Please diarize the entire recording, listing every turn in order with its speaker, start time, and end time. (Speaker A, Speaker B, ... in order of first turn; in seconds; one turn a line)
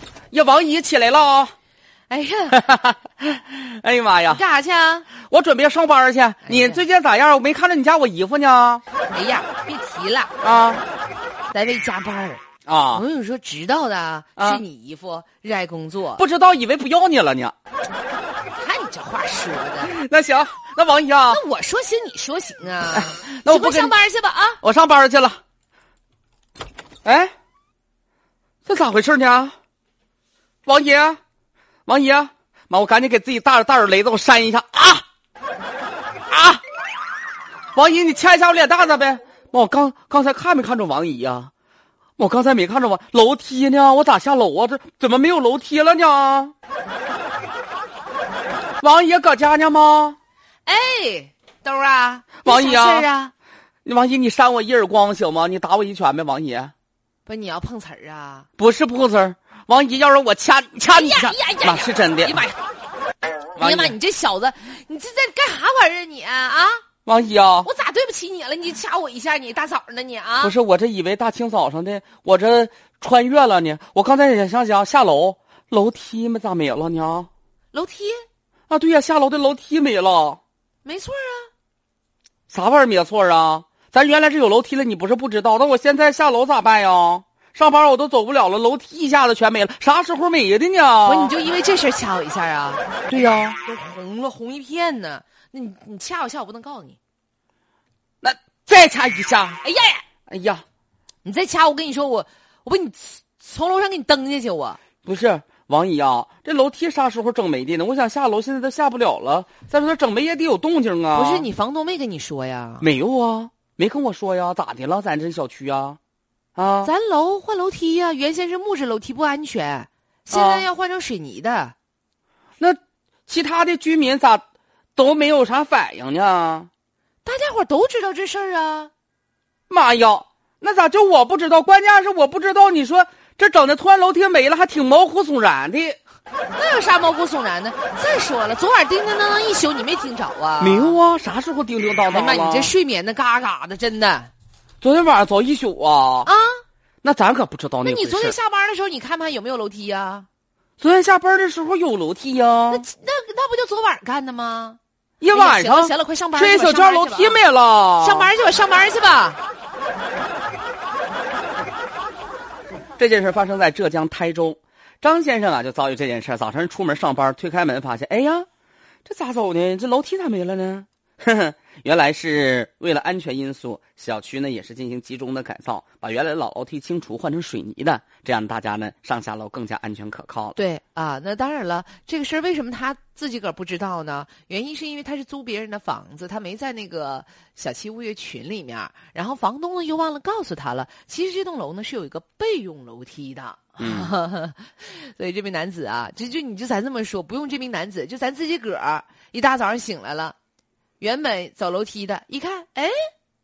Speaker A: 0.3-1.5
Speaker B: 2.1-2.7
Speaker A: 2.5-4.4
Speaker B: 4.3-5.1
Speaker A: 5.2-8.8
Speaker B: 6.4-6.8
Speaker B: 9.1-10.3
Speaker A: 10.4-10.8
Speaker B: 11.5-16.2
Speaker A: 12.7-13.0
Speaker A: 14.4-14.6
Speaker A: 16.2-17.5
Speaker B: 18.5-19.9
Speaker A: 19.8-21.4
Speaker B: 21.3-24.6
Speaker A: 22.9-23.9
Speaker A: 24.6-25.4
Speaker A: 27.0-27.3
Speaker A: 28.6-29.5
Speaker A: 30.6-31.2
Speaker A: 31.9-35.0
Speaker A: 36.3-36.6
Speaker A: 37.7-41.5
Speaker A: 42.2-46.5
Speaker A: 48.8-50.2
Speaker B: 50.6-53.3
Speaker A: 52.4-53.0
Speaker A: 53.8-56.7
Speaker B: 57.2-58.5
Speaker A: 58.6-62.4
Speaker B: 60.9-62.6
Speaker B: 63.5-66.8
Speaker A: 63.6-64.0
Speaker A: 67.0-67.7
Speaker B: 67.6-70.5
Speaker A: 70.4-77.3
Speaker B: 77.7-78.2
Speaker A: 78.7-80.4
Speaker B: 80.8-81.5
Speaker A: 82.5-91.3
Speaker B: 91.0-97.0
Speaker A: 93.1-93.5
Speaker A: 98.2-99.6
Speaker B: 99.6-100.0
Speaker A: 100.3-100.6
Speaker B: 101.2-104.8
Speaker A: 105.0-111.5
Speaker B: 111.1-112.8
Speaker A: 112.8-116.0
Speaker A: 116.5-116.9
Speaker B: 116.8-121.7
Speaker A: 120.3-120.7
Speaker A: 122.6-124.4
Speaker A: 125.0-126.7
Speaker B: 127.2-128.9
Speaker A: 129.7-136.0
Speaker B: 136.5-141.0
Speaker A: 140.6-142.7
Speaker B: 142.1-144.3
Speaker A: 144.8-146.3
Speaker B: 146.2-146.6
Speaker A: 147.0-148.3
Speaker B: 147.8-150.3
Speaker A: 150.8-152.9
Speaker B: 152.7-154.8
Speaker A: 155.2-158.3
Speaker B: 155.3-157.4
Speaker B: 158.0-159.4
Speaker A: 163.0-168.5
Speaker A: 169.0-180.6
Speaker B: 180.6-200.3
Speaker A: 193.8-194.1
Speaker B: 201.0-202.9